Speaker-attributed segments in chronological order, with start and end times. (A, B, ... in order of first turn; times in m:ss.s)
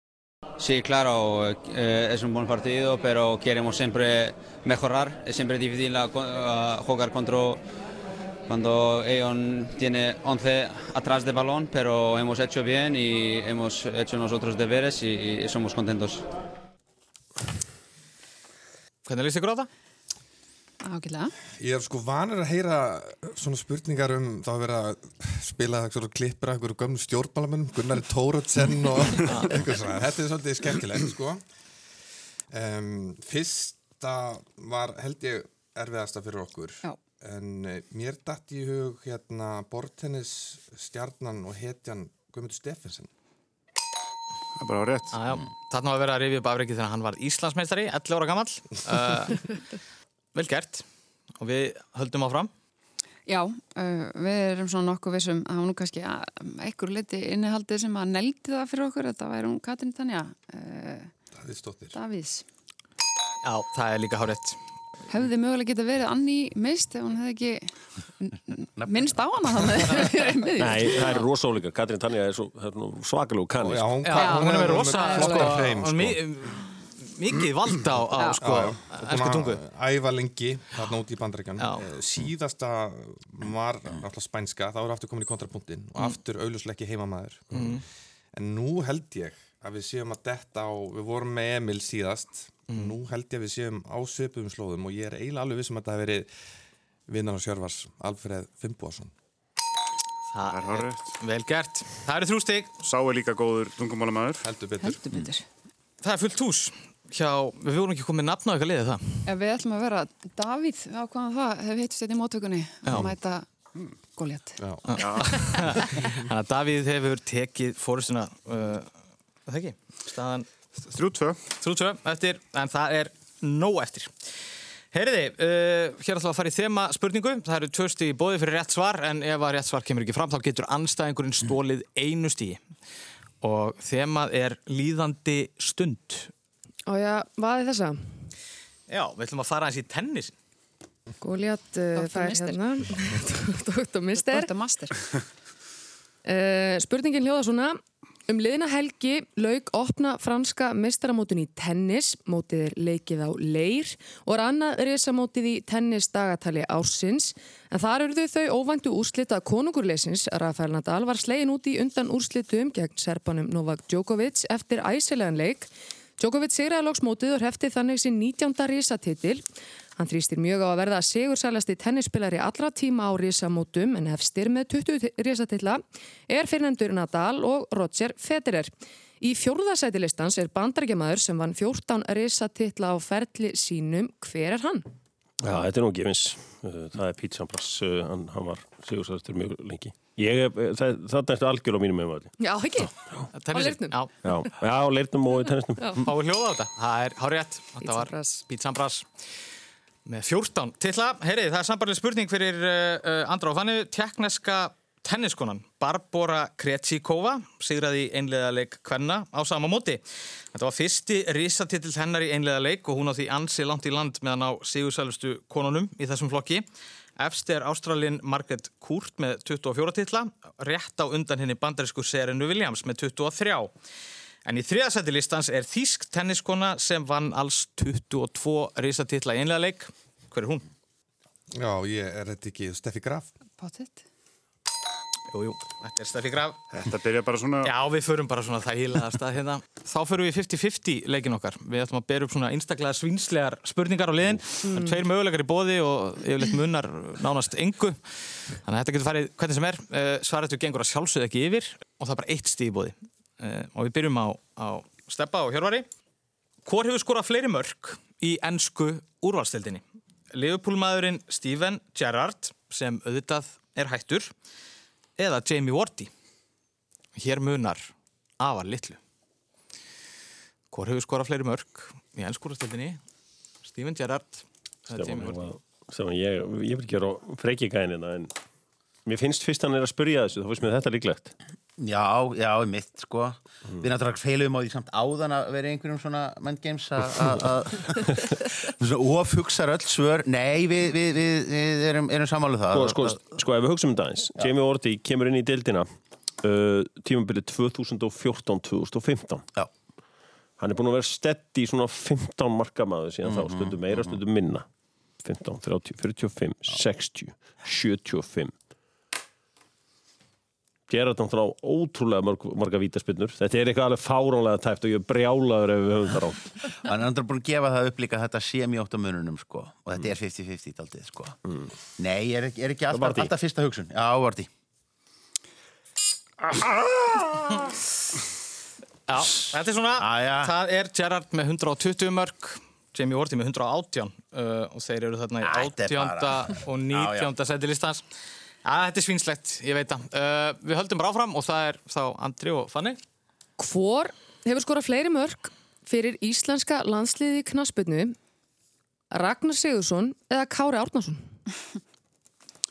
0:00.6-0:07.6 A
0:08.5-0:16.3 A
0:19.0-0:19.7 B
0:20.8-0:21.3 C
0:21.6-0:31.4 D
0:29.3-0:29.5 B
0:32.5-0:43.1 D
0:44.6-0:45.2 E
0:45.1-0:49.5 B
0:50.4-0:50.8 B
0:51.4-0:52.5 B
0:53.3-1:01.1 C
1:01.4-1:02.0 D
1:01.9-1:02.4 C
1:03.4-1:04.6 B
1:05.1-1:11.2 C
1:10.6-1:14.0 F
1:13.6-1:16.2 D
1:14.0-1:19.6 B
1:14.1-1:15.7 C
1:18.1-1:18.7 C
1:18.4-1:27.8 D
1:21.6-1:21.8 B
1:27.5-1:27.8 B
1:28.3-1:36.3 D
1:32.7-1:32.9 B
1:37.1-1:39.1 D
1:40.3-1:42.7 B
1:40.4-1:41.1 E
1:42.8-1:44.4 E
1:44.4-1:45.0 D
1:44.8-1:45.4 C
1:46.0-1:49.3 B
1:49.3-1:53.5 C
1:52.8-1:53.1 B
1:54.1-1:54.6 C
1:54.6-1:55.0 D
1:54.9-1:58.9 B
1:55.0-1:55.3 E
1:59.5-2:00.5 B
2:00.8-2:01.4 E
2:01.6-2:04.1 B
2:04.9-2:12.6 B
2:13.4-2:16.3 B
2:16.9-2:18.3 G
2:18.9-2:20.4 B
2:21.2-2:24.5 G
2:22.0-2:22.6 C
2:24.2-2:25.0 C
2:26.2-2:49.4 G
2:50.0-3:04.9 G
3:05.4-3:12.3 F
3:12.4-3:12.9 G
3:13.3-3:14.1 B
3:13.5-3:14.5 G
3:14.2-3:16.0 F
3:15.8-3:16.0 G
3:16.0-3:19.1 B
3:17.8-3:18.4 G
3:20.1-3:36.6 B
3:37.2-3:43.7 B
3:44.4-3:50.7 B
3:51.5-3:53.3 D
3:53.6-3:54.0 C
3:55.3-3:56.7 B
3:56.8-3:57.7 E
3:57.6-4:15.9 B
4:04.6-4:05.0 G
4:16.6-4:24.3 B
4:25.2-4:26.1 B
4:27.2-4:29.0 B
4:30.7-4:33.0 B
4:33.7-4:35.4 B
4:34.9-4:38.3 F
4:39.1-4:41.3 F
4:41.8-4:53.2 H
4:52.7-4:55.9 F
4:56.4-4:59.5 F
5:00.6-5:04.7 F
5:03.2-5:04.2 H
5:05.2-5:08.5 F
5:10.9-5:16.5 F
5:16.8-5:21.4 H
5:22.0-5:24.5 H
5:22.9-5:23.3 F
5:29.1-5:38.0 B
5:30.0-5:30.5 H
5:35.4-5:37.3 H
5:38.6-5:43.0 B
5:43.6-5:48.2 G
5:49.1-5:51.3 G